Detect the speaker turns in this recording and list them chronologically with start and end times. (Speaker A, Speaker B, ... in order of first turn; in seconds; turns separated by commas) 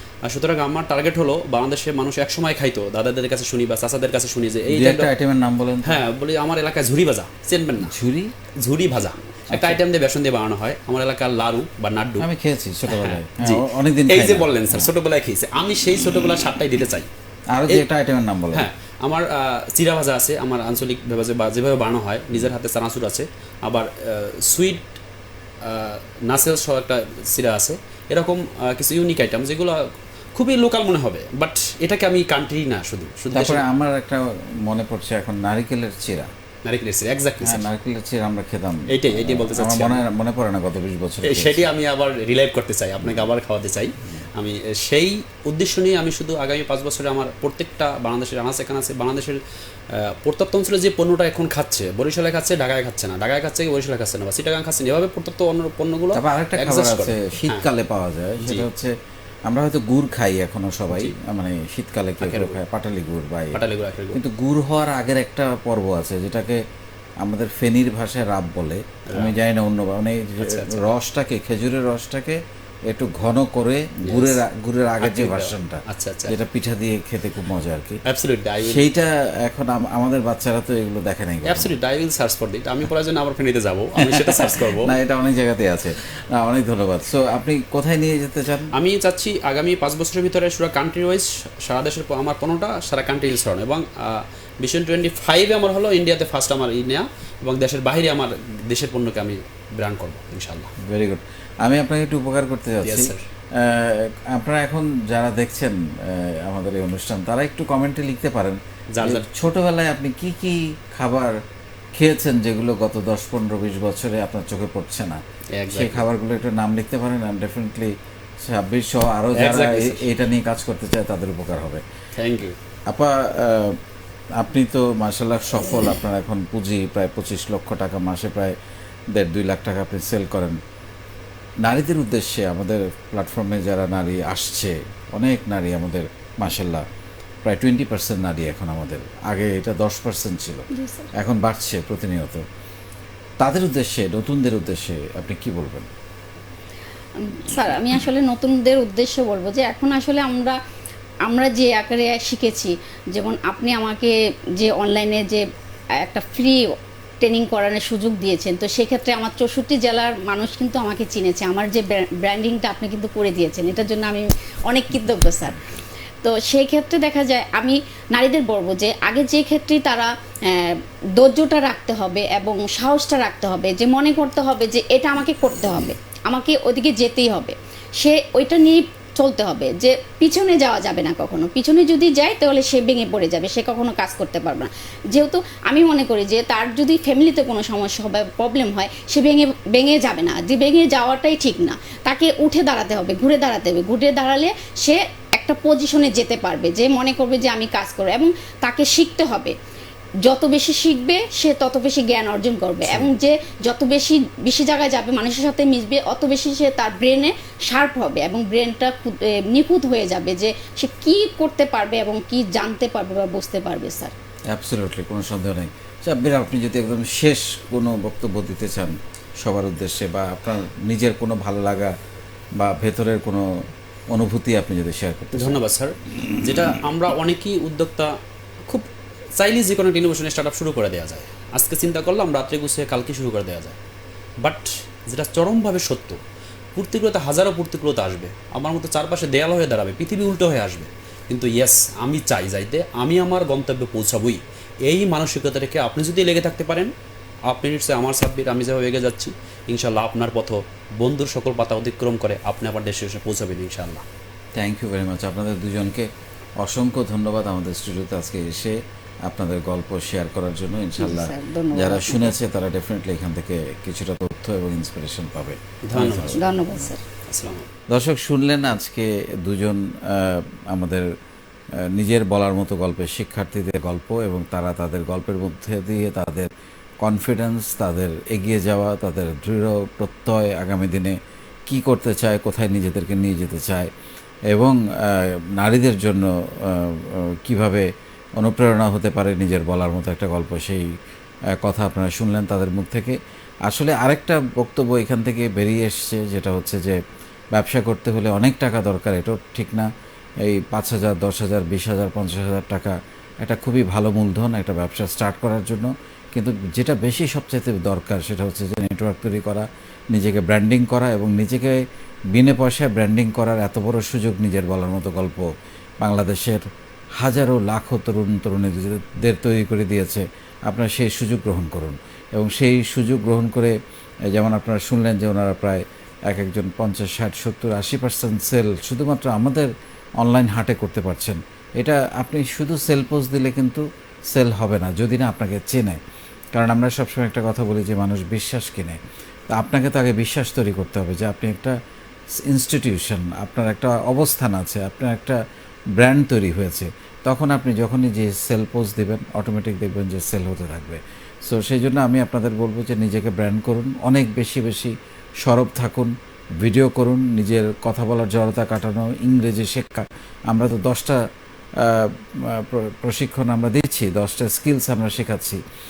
Speaker A: 0.2-5.1, Speaker B: 4.7-6.0, Speaker A: 5.8-7.9, Speaker B: 7.8-8.3, Speaker A: 8.6-12.3, Speaker B: 9.5-9.8, Speaker B: 12.2-14.9, Speaker A: 12.9-17.1, Speaker B: 17.5-18.7, Speaker A: 18.5-24.8, Speaker A: 25.6-29.8, Speaker A: 30.3-33.6, Speaker B: 33.3-36.3, Speaker A: 36.6-37.7, Speaker B: 37.4-41.6, Speaker A: 38.9-40.0, Speaker A: 41.2-49.4, Speaker B: 43.0-43.3, Speaker A: 49.9-57.6, Speaker B: 56.1-58.9, Speaker A: 58.4-58.7, Speaker B: 59.5-63.6, Speaker A: 62.2-62.6, Speaker A: 63.5-64.2, Speaker B: 64.1-66.6, Speaker B: 67.2-78.0, Speaker A: 70.4-70.8, Speaker A: 74.1-74.4, Speaker A: 75.0-76.4, Speaker A: 78.0-78.8, Speaker B: 78.6-81.8, Speaker A: 81.4-84.9, Speaker B: 84.0-88.7, Speaker A: 88.7-100.7, Speaker B: 100.8-111.3, Speaker A: 102.8-103.2, Speaker A: 108.9-109.2, Speaker B: 111.9-121.8, Speaker A: 115.5-116.0, Speaker A: 119.3-120.1, Speaker A: 122.2-122.5, Speaker B: 122.9-123.8, Speaker B: 124.3-128.5, Speaker B: 129.1-130.6, Speaker B: 131.6-136.8, Speaker B: 137.4-142.4, Speaker C: 140.7-141.1, Speaker B: 143.4-145.9, Speaker C: 147.2-150.6, Speaker C: 151.2-155.5, Speaker C: 156.0-156.6, Speaker C: 157.2-165.6, Speaker C: 166.2-199.5, Speaker C: 200.2-214.1, Speaker B: 214.5-221.9, Speaker B: 222.6-223.6, Speaker B: 224.1-225.6, Speaker A: 225.3-228.1, Speaker A: 228.6-233.8, Speaker A: 234.4-236.2, Speaker A: 236.7-246.9, Speaker A: 247.5-254.0, Speaker B: 254.6-266.9, Speaker C: 261.0-262.4, Speaker A: 265.9-266.4, Speaker C: 266.3-267.0, Speaker A: 267.3-267.6, Speaker B: 267.9-271.1, Speaker B: 271.8-276.5, Speaker B: 277.0-281.1, Speaker B: 281.7-283.9, Speaker B: 284.5-290.8, Speaker B: 291.6-297.0, Speaker B: 297.5-299.9, Speaker B: 300.4-315.5, Speaker B: 316.0-316.6, Speaker B: 317.2-323.7, Speaker B: 324.3-336.0, Speaker B: 336.5-339.0, Speaker B: 339.5-341.7, Speaker B: 342.4-345.4, Speaker B: 346.0-361.2, Speaker B: 361.8-365.6